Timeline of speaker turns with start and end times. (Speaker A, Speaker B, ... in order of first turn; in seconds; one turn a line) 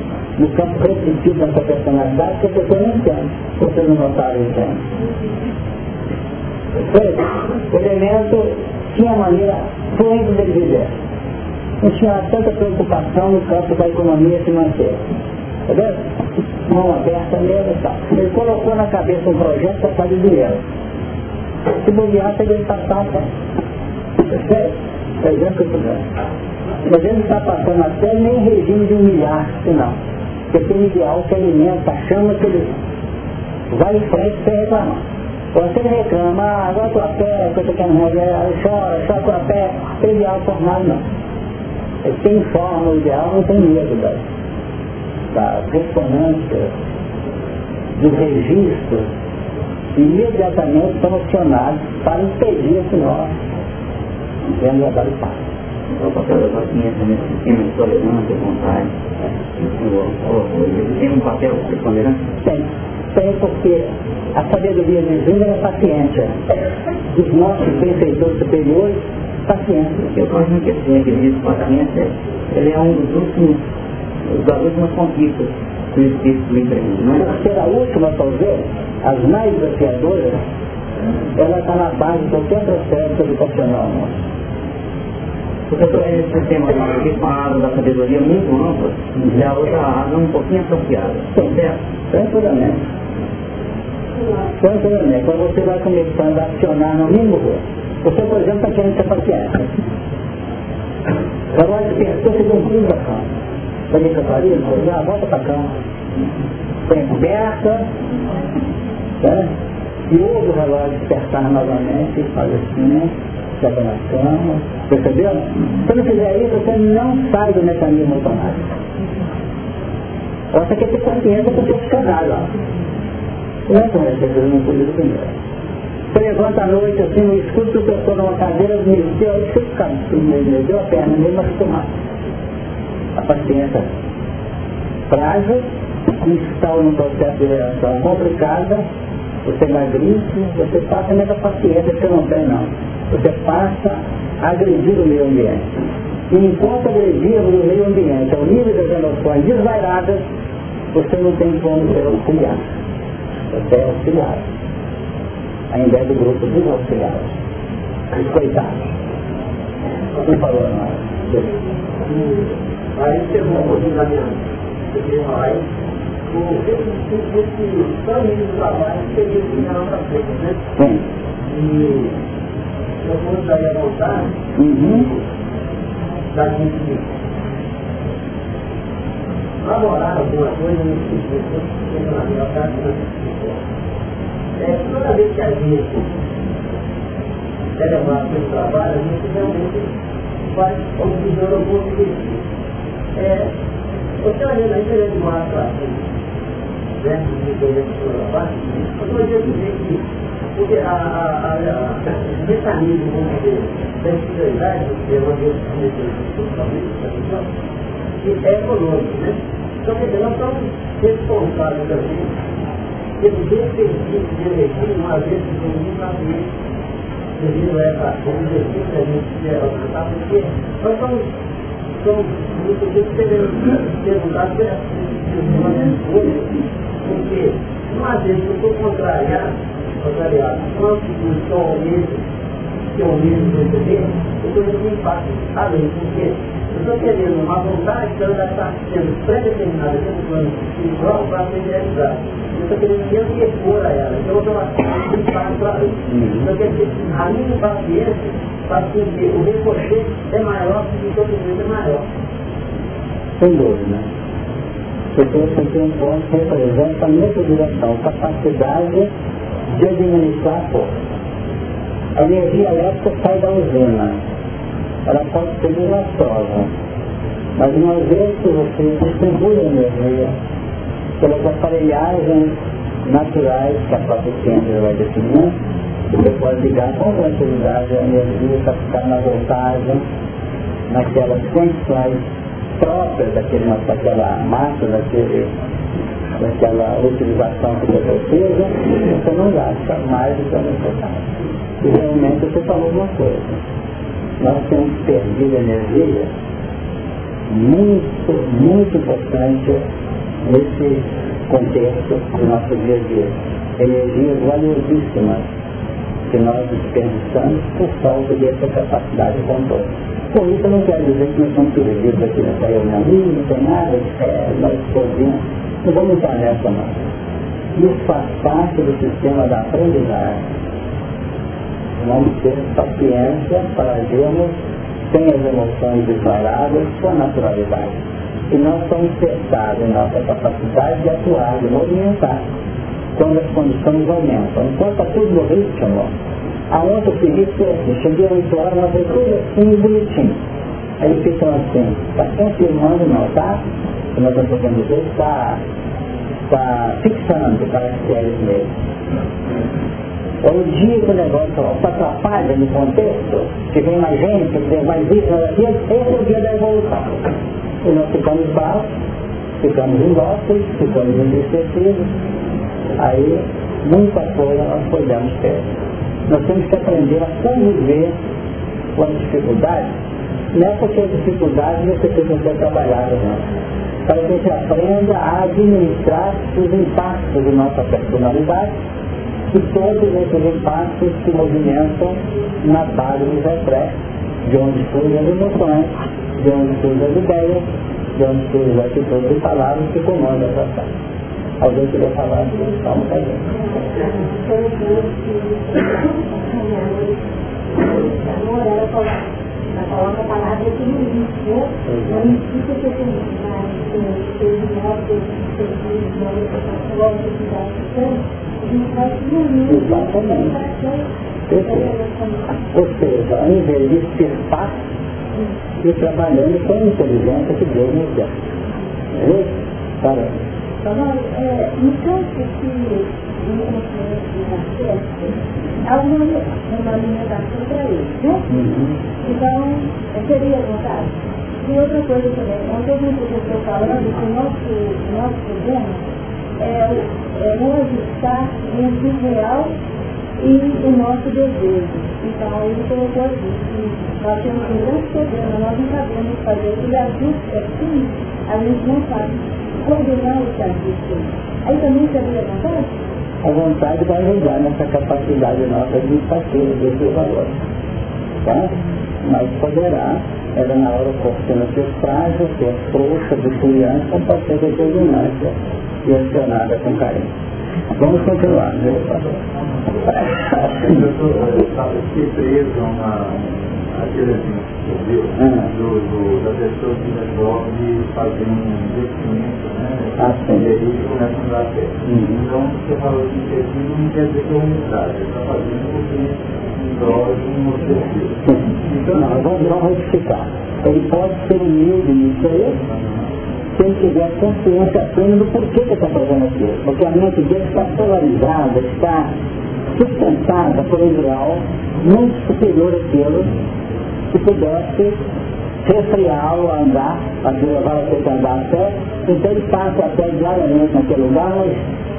Speaker A: 0.4-4.8
Speaker A: 6.7-10.9
Speaker A: 11.8-15.0
Speaker A: 15.7-16.0
Speaker A: 16.7-20.6
Speaker A: 21.8-23.3
Speaker A: 24.3-26.0
Speaker A: 26.8-29.9
Speaker A: 30.5-32.7
Speaker A: 33.7-41.0
Speaker A: 42.0-44.2
Speaker A: 45.3-46.7
Speaker A: 48.0-49.1
Speaker A: 49.9-53.3
Speaker A: 54.4-55.4
Speaker B: 55.9-58.9
Speaker B: 59.6-62.2
Speaker A: 62.4-66.4
Speaker A: 67.1-70.0
Speaker B: 70.0-73.6
Speaker B: 74.3-77.3
Speaker A: 77.2-80.4
Speaker A: 81.4-84.2
Speaker B: 85.7-91.8
Speaker A: 92.1-92.8
Speaker A: 94.6-99.7
Speaker A: 101.5-103.3
Speaker A: 103.9-105.7
Speaker A: 106.9-107.9
Speaker A: 109.2-109.5
Speaker A: 110.1-118.6
Speaker A: 120.5-122.5
Speaker A: 123.7-125.3
Speaker A: 126.1-131.9
Speaker A: 133.1-133.9
Speaker A: 135.1-135.6
Speaker A: 136.2-138.8
Speaker A: 139.4-145.7
Speaker A: 146.3-150.2
Speaker A: 150.9-152.6
Speaker A: 153.5-154.4
Speaker A: 155.7-157.3
Speaker A: 158.1-158.8
Speaker A: 160.2-161.5
Speaker C: 162.1-162.3
Speaker C: 162.9-165.6
Speaker C: 166.3-170.6
Speaker A: 170.8-171.0
Speaker C: 171.4-172.1
Speaker C: 173.0-174.3
Speaker A: 174.6-175.1
Speaker C: 174.9-175.2
Speaker C: 176.3-177.1
Speaker C: 179.6-183.6
Speaker C: 184.6-186.1
Speaker C: 187.8-189.9
Speaker C: 190.5-192.4
Speaker C: 193.1-193.5
Speaker C: 194.2-196.0
Speaker C: 197.0-200.0
Speaker C: 200.6-207.5
Speaker C: 208.2-212.3
Speaker C: 213.2-216.5
Speaker C: 217.4-221.3
Speaker C: 222.0-232.2
Speaker C: 232.9-252.1
Speaker A: 246.1-246.4
Speaker A: 253.4-254.1
Speaker A: 255.1-259.1
Speaker A: 259.7-260.9
Speaker A: 262.1-264.2
Speaker A: 265.1-266.7
Speaker A: 267.6-270.4
Speaker A: 271.2-275.6
Speaker A: 276.1-280.0
Speaker A: 280.9-282.2
Speaker A: 282.8-285.5
Speaker A: 286.4-291.2
Speaker A: 291.8-293.6
Speaker A: 294.4-296.3
Speaker A: 297.5-299.8
Speaker A: 300.4-305.5
Speaker A: 306.3-317.0
Speaker A: 317.7-320.4
Speaker A: 322.0-324.6
Speaker A: 325.1-327.9
Speaker A: 328.5-332.4
Speaker A: 333.1-336.1
Speaker A: 336.7-340.4
Speaker A: 341.0-343.6
Speaker A: 344.1-345.6
Speaker A: 346.5-348.7
Speaker A: 350.4-357.1
Speaker A: 357.8-358.9
Speaker A: 359.6-362.1
Speaker A: 363.0-365.6
Speaker A: 366.3-368.1
Speaker A: 368.9-369.9
Speaker A: 370.5-373.4
Speaker A: 374.1-378.7
Speaker A: 379.5-387.6
Speaker A: 388.1-390.9
Speaker A: 391.6-393.4
Speaker D: 394.1-397.1
Speaker D: 397.9-399.2
Speaker D: 399.7-411.0
Speaker A: 401.9-402.3
Speaker A: 409.6-410.5
Speaker A: 411.5-411.9
Speaker D: 411.7-412.4
Speaker A: 412.7-414.8
Speaker A: 415.8-418.3
Speaker A: 419.1-420.4
Speaker D: 420.8-425.3
Speaker D: 425.8-428.4
Speaker A: 428.5-429.0
Speaker D: 429.2-431.1
Speaker D: 431.6-436.0
Speaker D: 436.6-439.7
Speaker D: 440.4-449.3
Speaker D: 449.8-452.9
Speaker A: 453.4-457.6
Speaker A: 458.4-467.3
Speaker A: 467.9-469.4
Speaker A: 470.2-470.9
Speaker E: 470.8-489.4
Speaker A: 475.4-475.7
Speaker A: 480.2-480.7
Speaker A: 482.0-482.4
Speaker A: 489.1-492.8
Speaker A: 493.8-499.3
Speaker A: 499.9-503.5
Speaker A: 504.3-505.2
Speaker A: 505.8-511.8